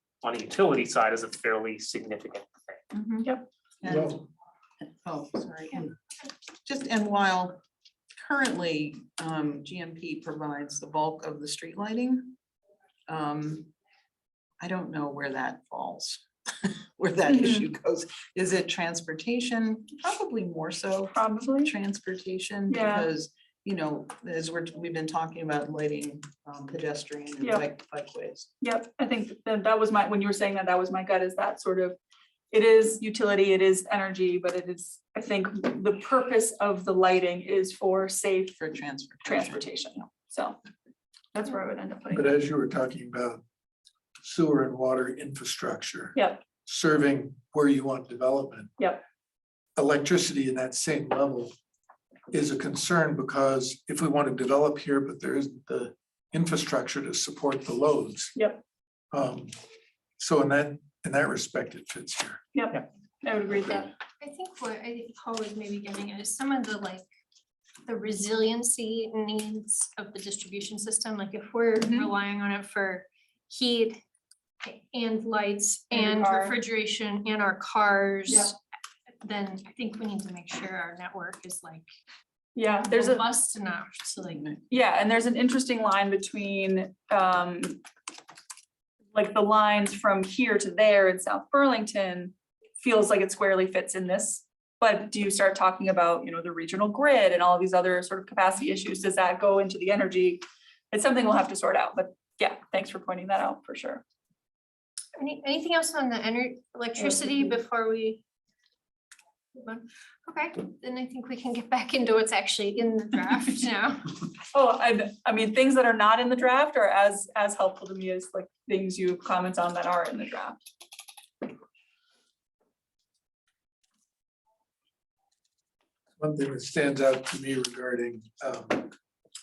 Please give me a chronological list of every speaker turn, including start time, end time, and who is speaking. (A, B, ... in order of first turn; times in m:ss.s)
0:00.2-0:02.8 A
0:03.0-0:03.3 B
0:03.8-0:04.3 B
0:04.8-0:05.9 B
0:06.6-0:07.6 B
0:08.2-0:12.4 B
0:13.1-0:13.7 B
0:14.6-0:28.5 B
0:17.3-0:17.7 C
0:21.1-0:21.7 C
0:22.7-0:23.1 C
0:27.4-0:27.7 C
0:28.6-0:32.0 C
0:32.5-0:38.6 C
0:38.6-0:39.6 B
0:39.2-0:40.6 C
0:41.3-0:42.4 C
0:42.1-0:43.4 D
0:44.2-0:48.7 D
0:46.2-0:46.4 C
0:49.8-0:51.5 D
0:52.3-0:58.4 D
0:58.4-0:58.6 C
0:59.1-0:59.5 D
1:00.2-1:02.4 D
1:02.6-1:03.9 C
1:04.2-1:07.0 E
1:07.9-1:14.0 E
1:11.8-1:12.1 C
1:14.6-1:18.6 E
1:15.9-1:16.6 C
1:19.2-1:21.8 E
1:22.6-1:23.3 C
1:22.8-1:24.5 E
1:24.7-1:27.8 C
1:29.1-1:44.0 C
1:45.2-1:48.2 E
1:47.0-1:47.6 C
1:49.6-1:54.2 E
1:54.5-2:00.6 C
2:06.2-2:08.9 D